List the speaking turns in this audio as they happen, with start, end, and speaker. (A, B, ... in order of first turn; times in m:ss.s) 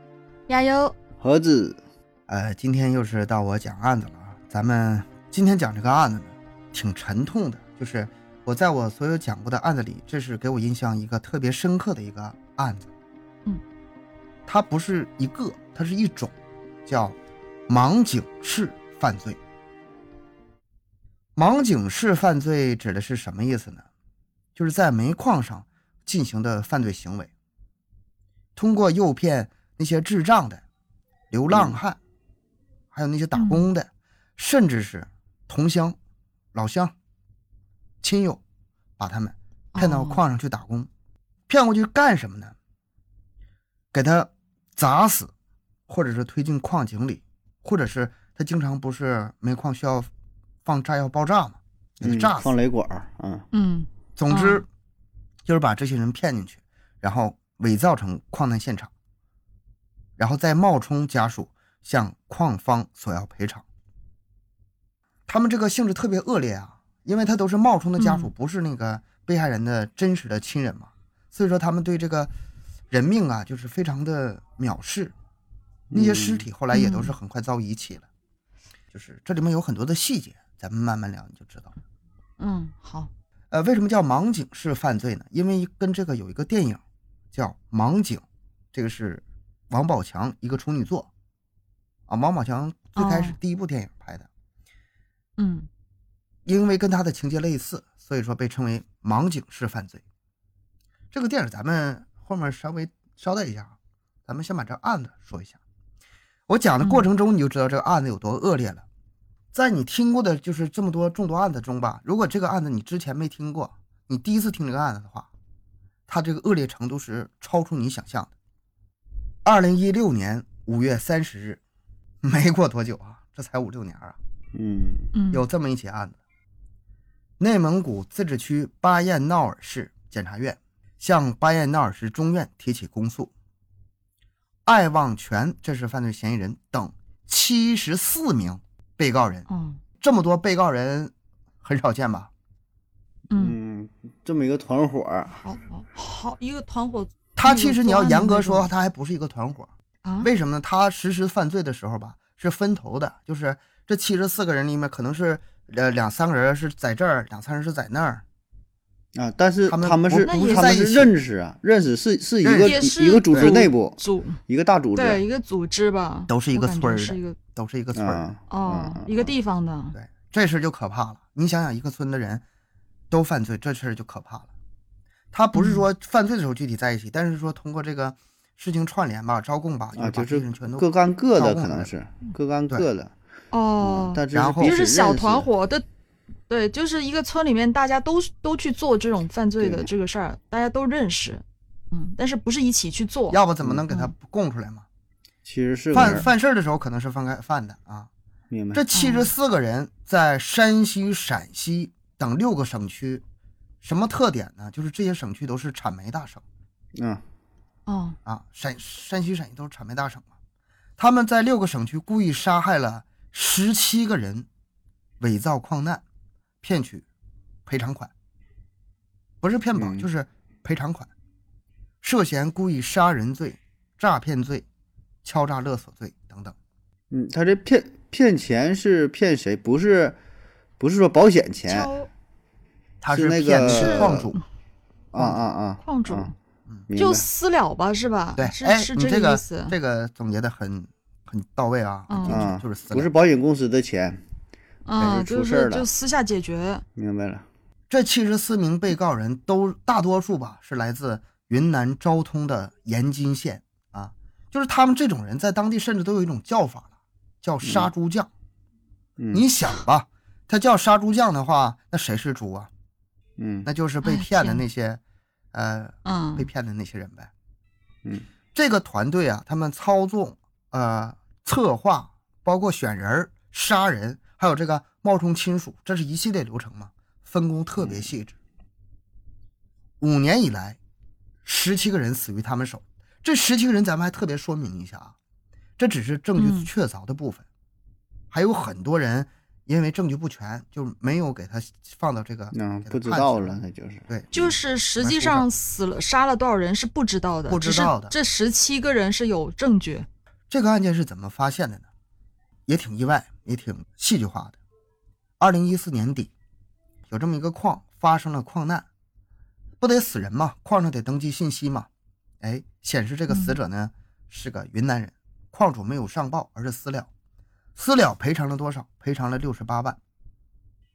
0:00.5-0:00.9 A
0:01.2-0:01.8 B
0:02.3-0:12.9 C
0:14.5-0:16.3 C
0:16.9-0:17.2 C
0:17.7-0:19.4 C
0:21.4-0:23.8 C
0:24.6-0:27.3 C
0:28.6-0:30.6 C
0:31.3-0:32.0 C
0:31.5-0:31.8 B
0:32.9-0:36.0 C
0:33.4-0:33.7 A
0:36.5-0:36.9 C
0:38.0-0:38.4 C
0:39.0-0:40.9 C
0:39.8-0:40.2 A
0:41.5-0:42.6 C
0:43.9-0:45.3 C
0:45.9-0:50.1 C
0:50.6-0:52.5 C
0:52.0-0:53.5 B
0:53.5-0:54.6 A
0:54.2-0:54.7 C
0:55.5-0:58.9 C
1:00.2-1:03.6 C
1:05.3-1:12.3 C
1:08.0-1:08.3 A
1:12.9-1:15.1 C
1:15.9-1:16.5 B
1:15.9-1:18.1 C
1:16.7-1:17.2 A
1:18.9-1:21.7 C
1:22.4-1:23.1 A
1:23.5-1:26.8 C
1:27.3-1:31.1 C
1:32.1-1:34.3 C
1:33.0-1:33.4 A
1:35.4-1:35.7 A
1:36.5-1:40.0 C
1:41.1-1:43.7 C
1:44.3-1:45.6 C
1:46.5-1:48.8 C
1:46.8-1:47.1 A
1:49.5-1:55.3 C
1:56.1-1:58.3 C
1:59.4-2:01.6 C
2:02.2-2:04.2 C
2:04.5-2:05.1 B
2:05.2-2:05.4 A
2:05.3-2:06.2 C
2:07.4-2:13.3 C
2:14.7-2:19.5 C
2:19.5-2:19.8 A
2:20.0-2:22.3 C
2:23.3-2:23.6 A
2:23.3-2:25.4 B
2:25.4-2:28.7 A
2:27.4-2:38.2 C
2:30.0-2:30.3 A
2:39.2-2:45.2 B
2:39.7-2:41.1 C
2:40.3-2:40.8 A
2:42.4-2:43.6 C
2:42.7-2:44.4 A
2:45.0-2:47.4 A
2:46.3-2:48.3 C
2:48.0-2:49.3 B
2:48.5-2:50.0 A
2:49.9-2:52.4 C
2:53.1-2:54.5 C
2:55.3-3:01.9 C
2:55.6-2:55.8 A
3:00.0-3:03.1 B
3:03.5-3:05.8 A
3:03.8-3:05.5 B
3:04.3-3:04.8 C
3:06.5-3:14.1 A
3:09.6-3:09.9 B
3:13.3-3:14.9 C
3:15.4-3:16.3 B
3:15.9-3:18.1 C
3:16.0-3:16.3 A
3:18.5-3:18.8 B
3:18.7-3:23.2 C
3:18.9-3:19.3 A
3:23.8-3:26.4 C
3:27.0-3:27.2 B
3:27.9-3:28.2 A
3:28.3-3:30.3 C
3:31.0-3:34.5 C
3:35.2-3:36.0 C
3:36.6-3:37.0 C
3:37.7-3:38.1 C
3:39.4-3:41.1 C
3:39.8-3:40.1 B
3:42.0-3:44.6 C
3:45.2-3:46.6 C
3:47.1-3:50.2 B
3:50.8-3:51.9 B
3:51.7-3:52.1 A
3:53.0-3:54.4 C
3:53.1-3:54.3 B
3:53.6-3:54.4 A
3:55.1-3:56.3 B
3:55.8-3:56.3 A
3:56.9-3:57.3 B
3:57.0-3:59.8 A
3:58.4-4:03.1 C
4:02.1-4:02.4 A
4:02.3-4:04.2 B
4:04.9-4:06.8 A
4:05.0-4:05.9 B
4:07.0-4:07.4 B
4:07.9-4:16.9 C
4:17.4-4:18.3 C
4:17.6-4:17.9 B
4:19.2-4:19.4 B
4:19.3-4:22.7 C
4:23.4-4:23.7 B
4:23.6-4:25.0 C
4:24.0-4:24.6 A
4:25.5-4:27.3 C
4:26.0-4:26.5 A
4:28.5-4:38.4 C
4:37.8-4:38.1 B
4:40.0-4:40.8 C
4:41.4-4:45.2 C
4:45.8-4:47.4 C
4:46.4-4:46.7 A
4:48.3-4:55.5 C
4:52.5-4:54.1 B
4:54.3-5:00.1 A
4:57.5-4:58.1 C
5:00.5-5:01.9 C
5:02.7-5:04.6 C
5:05.4-5:06.3 C
5:07.1-5:08.9 C
5:09.8-5:11.9 C
5:12.4-5:17.1 C
5:13.3-5:13.6 A
5:17.8-5:20.0 C